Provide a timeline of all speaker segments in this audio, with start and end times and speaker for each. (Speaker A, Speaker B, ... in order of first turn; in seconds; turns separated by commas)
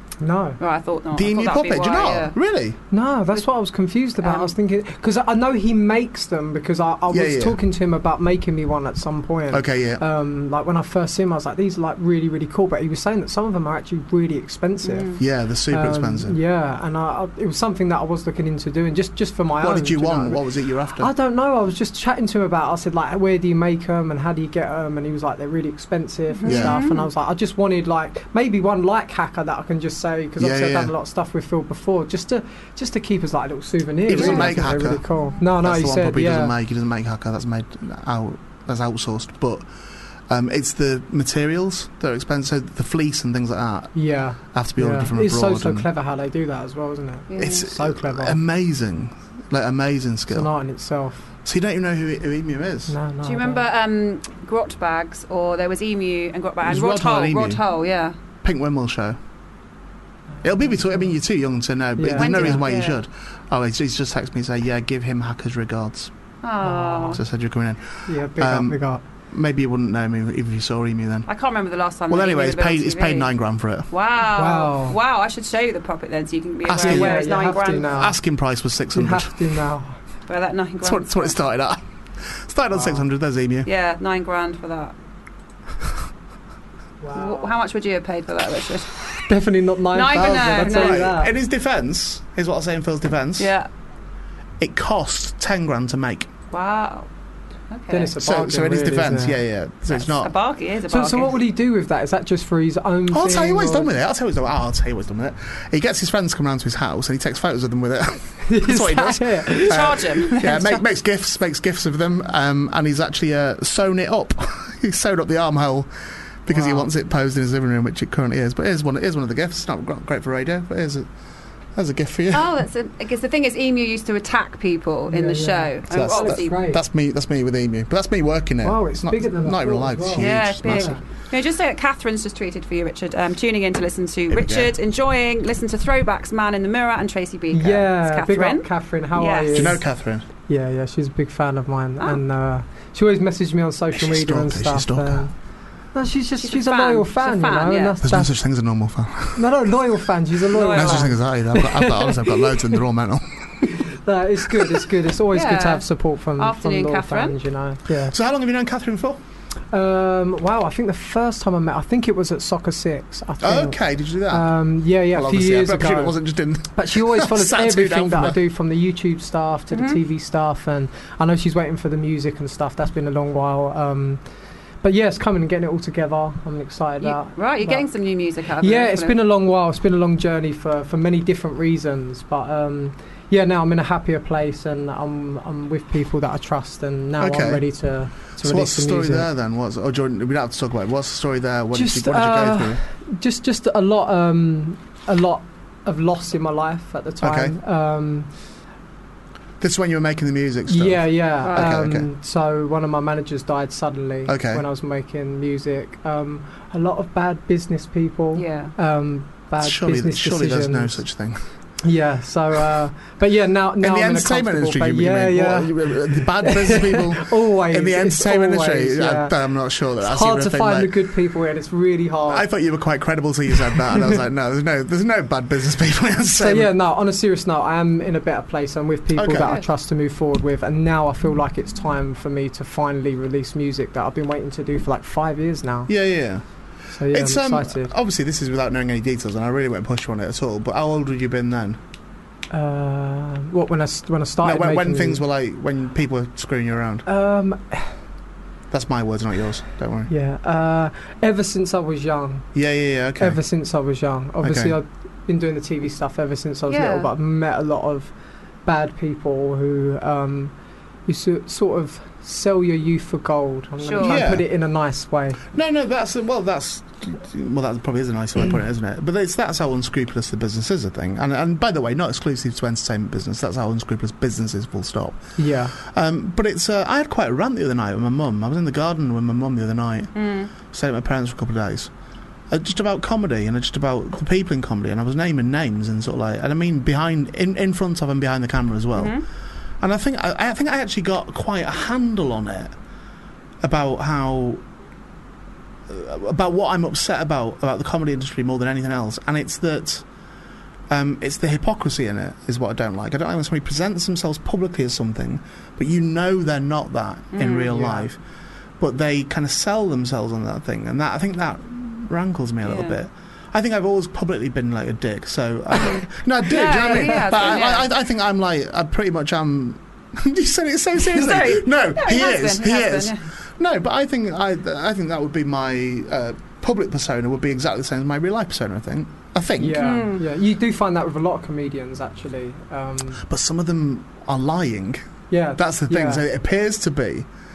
Speaker A: 0.2-0.6, Speaker B: 0.6-2.3, Speaker C: 1.1-2.8, Speaker A: 2.9-15.2, Speaker B: 4.2-4.5, Speaker C: 7.1-7.6, Speaker C: 9.5-10.0, Speaker B: 14.8-15.2, Speaker C: 15.2-16.4, Speaker A: 15.7-20.4, Speaker C: 19.6-21.1, Speaker A: 21.0-36.5, Speaker B: 26.3-27.1, Speaker C: 26.4-26.8, Speaker C: 30.4-30.9, Speaker C: 34.1-39.6, Speaker B: 34.1-34.5, Speaker C: 40.3-45.9, Speaker A: 43.9-48.4, Speaker B: 47.3-47.7, Speaker C: 47.4-50.5, Speaker A: 50.3-51.3, Speaker C: 51.4-52.9, Speaker A: 52.9-53.6, Speaker B: 53.2-58.1, Speaker C: 56.6-57.6, Speaker C: 58.4-59.2, Speaker C: 60.4-66.1, Speaker A: 62.0-62.6, Speaker B: 62.1-63.0, Speaker B: 66.4-67.2, Speaker A: 66.6-67.2, Speaker C: 67.0-68.8, Speaker A: 68.1-69.0, Speaker C: 69.3-71.3, Speaker B: 71.3-73.3, Speaker C: 72.1-73.9, Speaker B: 73.9-77.9, Speaker A: 74.3-75.0, Speaker C: 76.7-77.2, Speaker A: 76.7-78.2, Speaker C: 77.9-79.3, Speaker A: 78.9-80.0, Speaker B: 80.3-81.3, Speaker C: 80.8-83.7, Speaker A: 82.7-83.0, Speaker B: 83.6-84.9, Speaker A: 87.0-87.5, Speaker B: 87.1-88.9, Speaker A: 89.3-91.3, Speaker B: 89.9-91.1, Speaker C: 90.6-93.5, Speaker B: 93.4-93.7, Speaker C: 94.6-96.3, Speaker B: 96.5-97.1, Speaker B: 97.7-98.1, Speaker A: 97.9-99.4, Speaker C: 98.2-100.3, Speaker B: 99.9-101.3, Speaker A: 100.9-103.9, Speaker C: 103.1-115.9, Speaker A: 108.5-110.0, Speaker B: 109.7-110.8, Speaker C: 116.4-121.1, Speaker A: 116.5-116.9, Speaker C: 121.7-122.6, Speaker B: 122.3-126.5, Speaker A: 125.1-126.8, Speaker C: 125.9-131.0, Speaker A: 128.6-131.0, Speaker B: 130.2-139.7, Speaker C: 134.3-134.7, Speaker A: 137.5-139.8, Speaker C: 139.5-140.2, Speaker A: 140.5-145.3, Speaker C: 143.9-145.3, Speaker A: 145.9-148.3, Speaker B: 146.4-147.9, Speaker C: 148.0-149.5, Speaker A: 149.3-152.6, Speaker B: 150.5-151.1, Speaker C: 150.7-153.7, Speaker A: 153.9-158.1, Speaker B: 155.3-155.8, Speaker B: 156.4-157.3, Speaker C: 158.1-159.2, Speaker A: 159.7-163.8, Speaker C: 163.4-164.5, Speaker A: 164.3-166.1, Speaker C: 165.1-168.4, Speaker A: 166.7-174.2, Speaker B: 169.7-170.0, Speaker A: 174.8-177.8, Speaker B: 177.0-179.2, Speaker A: 178.6-189.3, Speaker C: 187.2-187.6, Speaker C: 188.3-192.8, Speaker A: 191.7-198.3, Speaker C: 197.2-197.6, Speaker C: 199.6-202.1, Speaker A: 200.7-210.9, Speaker B: 201.4-201.8, Speaker C: 204.3-204.6, Speaker B: 208.3-208.7, Speaker C: 209.6-211.4, Speaker A: 211.8-219.3, Speaker C: 213.8-220.9, Speaker A: 220.0-222.5, Speaker C: 222.3-226.7, Speaker A: 226.4-235.9, Speaker C: 229.1-229.6, Speaker C: 235.9-236.4, Speaker A: 236.9-237.9, Speaker C: 237.1-241.8, Speaker A: 242.5-245.2, Speaker C: 244.4-247.1, Speaker A: 247.1-247.9, Speaker C: 248.7-250.1, Speaker A: 250.1-252.5, Speaker C: 252.5-253.4, Speaker A: 253.2-258.1, Speaker C: 254.4-254.8, Speaker B: 256.7-257.1, Speaker A: 258.6-260.5, Speaker A: 261.1-265.4, Speaker B: 263.8-264.2, Speaker C: 264.0-264.4, Speaker C: 265.5-281.9, Speaker A: 275.4-275.8, Speaker B: 280.1-280.5, Speaker C: 282.5-289.2, Speaker B: 288.9-289.2, Speaker C: 289.8-292.7, Speaker C: 293.6-294.6, Speaker C: 295.9-300.0, Speaker C: 300.9-308.2, Speaker B: 307.3-307.7, Speaker A: 307.7-308.0, Speaker C: 308.8-330.0, Speaker B: 312.6-313.0, Speaker B: 315.8-317.9, Speaker A: 316.9-317.4, Speaker B: 321.0-323.2, Speaker A: 329.6-333.2, Speaker B: 329.8-330.2, Speaker C: 333.2-337.3, Speaker A: 335.3-336.2